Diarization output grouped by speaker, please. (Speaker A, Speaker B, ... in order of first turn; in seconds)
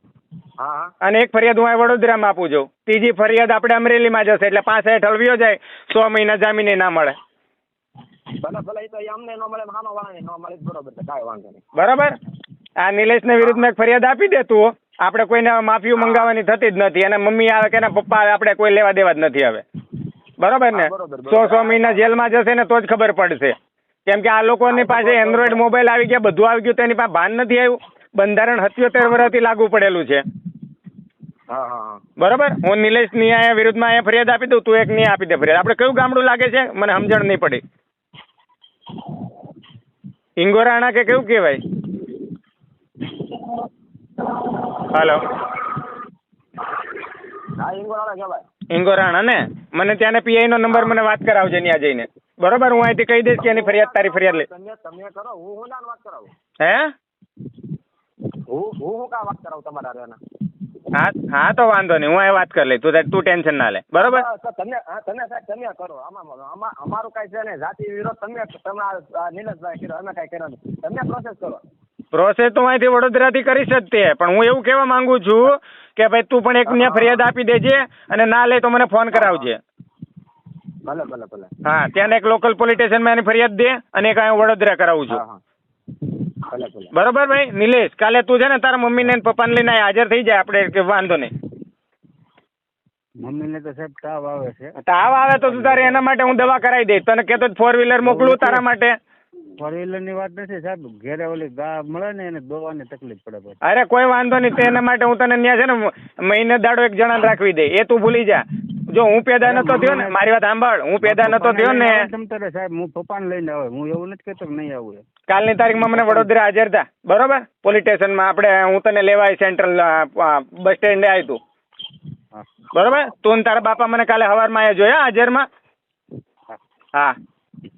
Speaker A: 0.6-0.9, 8.3-11.6, 13.4-13.7, 16.0-16.3, 20.7-22.2, 24.7-25.6, 31.5-32.0, 47.6-48.4, 50.7-51.0, 53.4-56.3, 58.5-60.2, 64.0-71.6, 76.7-77.2, 79.1-79.5, 80.9-81.5, 85.1-85.4, 86.5-86.9
Speaker B: 1.0-7.2, 11.8-12.2, 12.8-19.6, 20.4-23.6, 24.1-30.2, 32.2-37.6, 40.4-41.6, 44.9-45.2, 48.7-54.5, 56.6-56.9, 60.9-64.2, 72.1-79.6, 81.7-85.2, 86.9-91.3, 94.9-99.0, 103.7-112.0, 115.3-121.4, 122.7-125.5
Speaker C: 93.2-94.8, 95.4-96.3, 98.0-98.7, 99.6-103.6, 109.4-110.2, 111.0-115.0, 115.9-116.3